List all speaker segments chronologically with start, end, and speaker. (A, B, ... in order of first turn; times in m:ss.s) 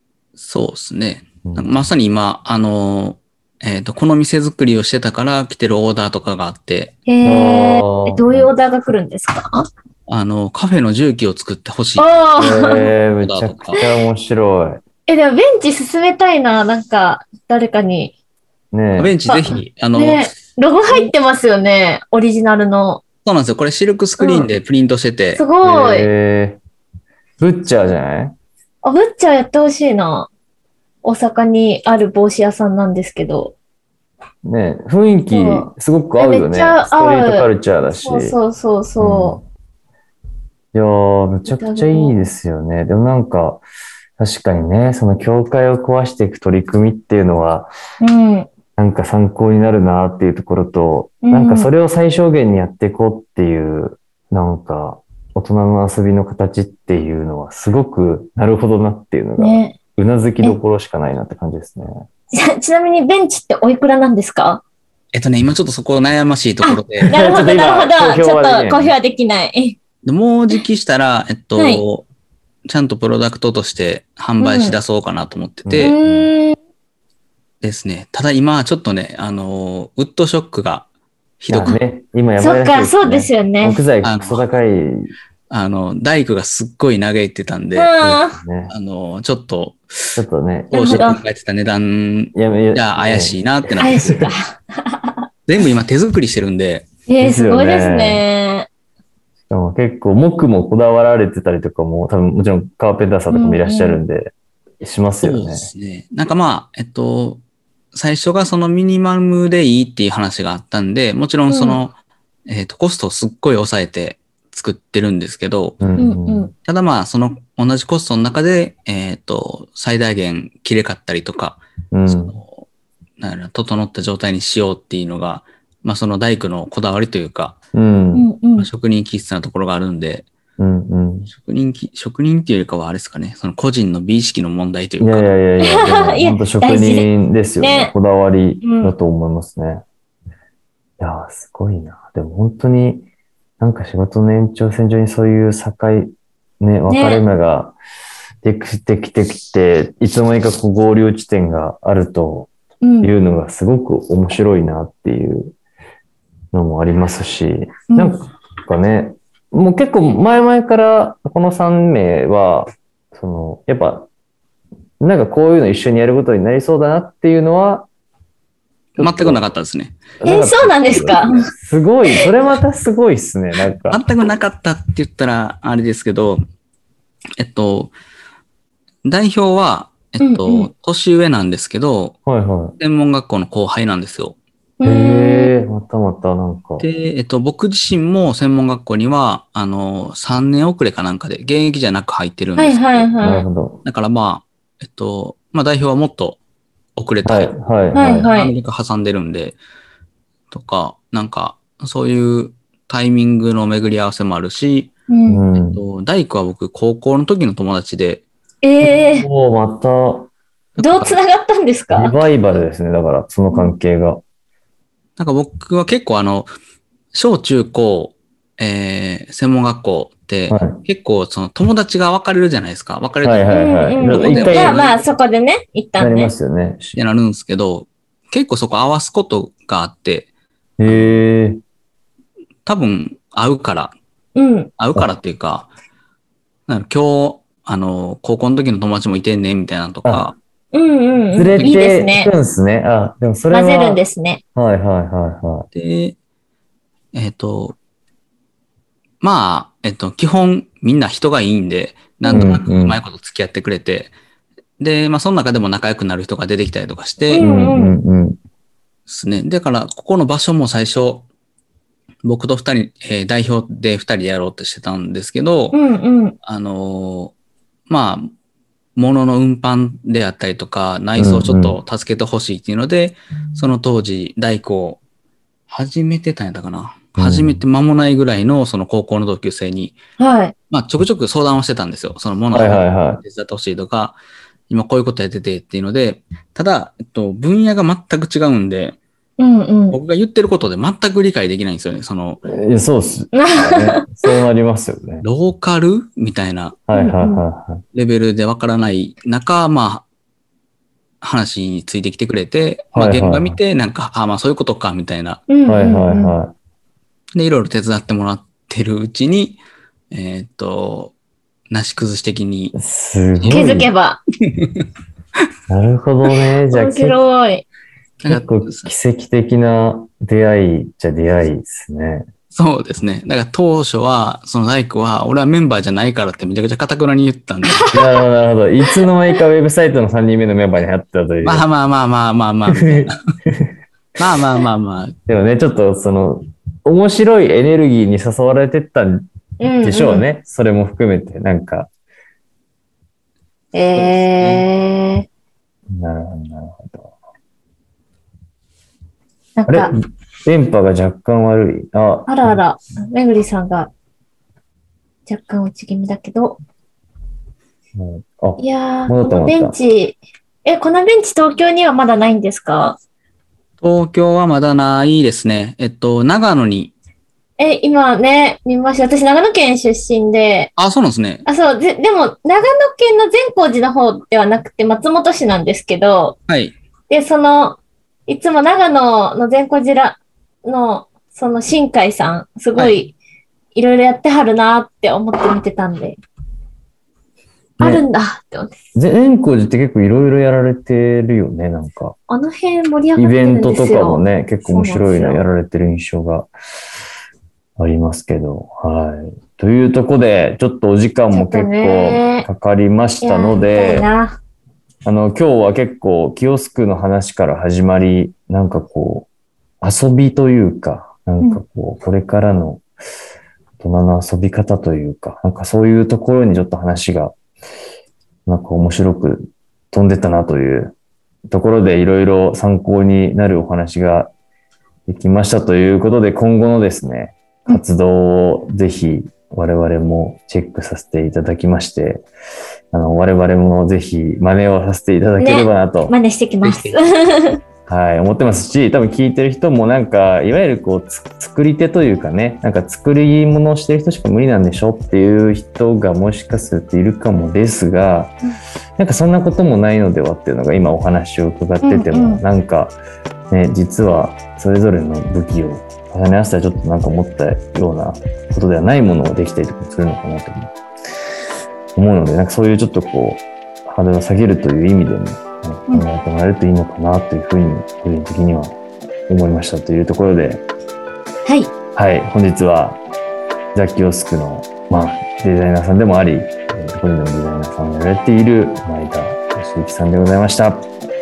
0:00.4-0:07.0 A
0:07.1-0:09.6 B
0:07.2-0:08.5 C
0:10.1-0:12.2 A
0:12.0-0:12.9 B
0:12.4-0:14.8 C
0:13.2-0:13.8 A
0:15.1-0:18.1 B
0:18.7-0:19.2 C
0:19.0-0:20.3 A
0:19.3-0:23.0 B
0:23.2-0:25.4 A
0:24.2-0:24.5 B
0:25.4-0:26.1 B
0:25.6-0:26.6 C
0:27.4-0:28.4 C
0:28.8-0:30.3 B
0:31.0-0:33.6 B
0:34.4-0:38.4 C
0:35.3-0:37.5 B
0:38.0-0:39.4 B
0:39.0-0:39.4 C
0:40.7-0:43.6 C
0:41.5-0:42.2 B
0:44.2-0:47.7 C
0:48.0-0:48.5 B
0:48.8-1:01.9 C
0:51.2-0:51.7 B
0:59.4-0:59.8 B
1:02.3-1:04.6 B
1:05.1-1:07.1 A
1:06.6-1:09.8 B
1:07.1-1:09.0 C
1:10.0-1:12.1 A
1:11.6-1:11.8 B
1:12.7-1:16.0 A
1:14.4-1:14.8 B
1:15.6-1:16.3 C
1:15.8-1:16.6 B
1:17.6-1:20.9 A
1:21.4-1:21.8 A
1:21.5-1:25.1 C
1:22.4-1:23.8 B
1:24.0-1:24.5 A
1:25.5-1:28.0 A
1:27.8-1:28.4 B
1:28.0-1:28.7 C
1:28.7-1:34.3 A
1:30.2-1:31.1 C
1:30.8-1:31.2 B
1:32.3-1:33.4 C
1:33.8-1:35.2 B
1:35.5-1:36.9 A
1:37.1-1:38.7 B
1:37.2-1:38.2 C
1:39.5-1:45.7 C
1:43.3-1:44.0 B
1:45.2-1:47.4 A
1:47.9-1:52.0 A
1:51.5-1:51.8 B
1:52.5-1:55.8 A
1:55.8-1:56.5 C
1:56.0-1:56.5 B
1:56.6-2:02.6 A
2:01.9-2:02.4 C
2:03.2-2:07.6 A
2:07.7-2:08.3 C
2:08.1-2:08.7 B
2:08.6-2:10.3 A
2:10.6-2:11.3 C
2:11.3-2:15.4 A
2:15.0-2:19.8 C
2:15.6-2:17.9 B
2:18.6-2:19.0 B
2:21.0-2:23.1 C
2:23.6-2:26.1 C
2:26.6-2:27.8 C
2:26.9-2:27.2 B
2:28.4-2:32.5 C
2:32.8-2:33.1 B
2:33.0-2:35.5 C
2:36.5-2:44.1 C
2:37.9-2:38.2 B
2:45.0-2:47.9 C
2:49.0-2:50.0 A
2:49.0-2:49.4 C
2:50.2-2:54.0 C
2:50.2-2:51.5 B
2:53.9-2:56.4 A
2:57.4-2:57.9 A
2:59.0-3:02.2 A
3:00.2-3:00.7 B
3:02.3-3:02.8 C
3:02.8-3:04.4 A
3:04.8-3:05.5 B
3:04.8-3:06.9 C
3:06.8-3:13.1 A
3:12.6-3:13.5 B
3:13.2-3:13.8 C
3:13.8-3:16.4 A
3:17.0-3:17.6 A
3:17.2-3:18.3 C
3:17.9-3:18.5 B
3:18.1-3:19.6 A
3:20.5-3:24.9 A
3:25.1-3:25.4 B
3:25.3-3:25.8 C
3:25.6-3:28.2 A
3:28.6-3:29.3 B
3:28.8-3:30.3 C
3:30.8-3:31.2 A
3:30.8-3:32.2 B
3:31.9-3:34.2 C
3:35.2-3:36.5 A
3:37.1-3:45.0 A
3:40.5-3:40.8 C
3:43.2-3:44.8 C
3:43.5-3:46.3 B
3:46.0-3:47.0 C
3:47.0-3:50.3 A
3:50.8-3:51.6 C
3:50.8-3:51.2 A
3:52.7-3:54.0 A
3:54.4-3:54.7 B
3:54.8-3:55.7 A
3:56.7-4:00.4 A
4:00.0-4:00.3 C
4:00.7-4:02.3 B
4:01.4-4:04.0 C
4:03.5-4:04.4 B
4:04.6-4:05.7 C
4:05.7-4:06.2 A
4:07.1-4:07.8 A
4:09.2-4:14.1 A
4:12.2-4:12.5 B
4:12.3-4:13.0 C
4:14.8-4:17.4 A
4:17.3-4:18.0 B
4:17.3-4:18.4 C
4:19.1-4:21.2 A
4:22.2-4:25.8 A
4:25.7-4:26.4 B
4:26.4-4:27.3 A
4:27.9-4:28.3 A
4:29.0-4:35.0 A
4:31.2-4:31.8 C
4:35.7-4:40.0 A
4:37.2-4:37.6 C
4:40.2-4:40.5 B
4:40.7-4:44.2 A
4:42.5-4:43.2 C
4:44.7-4:49.0 A
4:49.4-4:50.0 B
4:49.9-4:52.4 A
4:52.5-4:55.2 C
4:53.3-4:54.3 B
4:55.2-4:56.8 A
4:56.9-4:57.8 C
4:56.9-4:57.4 B
4:57.9-5:00.0 A
5:01.2-5:05.4 A
5:02.9-5:03.6 C
5:05.5-5:06.4 B
5:05.7-5:06.5 C
5:07.4-5:09.6 A
5:10.1-5:11.2 A
5:11.7-5:12.8 A
5:12.8-5:13.9 C
5:13.4-5:13.6 A
5:13.5-5:14.2 B
5:14.6-5:14.8 A
5:15.7-5:17.2 C
5:16.7-5:17.6 B
5:18.2-5:18.9 A
5:18.2-5:22.3 C
5:22.5-5:27.9 A
5:27.7-5:28.0 B
5:27.9-5:31.7 C
5:31.4-5:33.2 A
5:32.7-5:33.7 C
5:34.2-5:35.2 A
5:35.3-5:39.2 C
5:39.6-5:40.3 B
5:39.8-5:41.9 C
5:43.7-5:45.3 B
5:43.9-5:44.7 A
5:45.9-5:47.1 C
5:49.6-5:49.9 B
5:49.7-5:52.6 C
5:52.3-5:53.9 B
5:55.3-5:56.6 B
5:58.0-5:59.8 C
5:58.6-6:03.0 B
6:03.8-6:06.9 A
6:07.6-6:10.7 B
6:10.8-6:11.5 A
6:11.5-6:16.4 B
6:16.5-6:16.8 A
6:17.1-6:23.2 B
6:23.8-6:26.2 B
6:27.8-6:28.1 C
6:27.8-6:28.8 B
6:29.0-6:32.2 C
6:32.3-6:35.4 B
6:33.2-6:36.5 C
6:37.8-6:44.1 C
6:41.3-6:42.5 B
6:43.2-6:44.4 B
6:45.0-6:49.3 C
6:49.8-6:52.8 C
6:53.8-6:57.4 C
6:58.5-7:00.9 C
7:01.5-7:04.3 C
7:05.1-7:12.3 C
7:12.9-7:16.2 C
7:15.4-7:17.6 B
7:16.6-7:17.0 A
7:17.9-7:28.4 C
7:29.0-7:33.0 C
7:31.8-7:32.4 B
7:33.5-7:40.8 C
7:42.0-7:48.8 C
7:49.3-7:50.6 C
7:51.5-7:51.7 B
7:52.0-7:53.0 C
7:53.8-8:00.9 C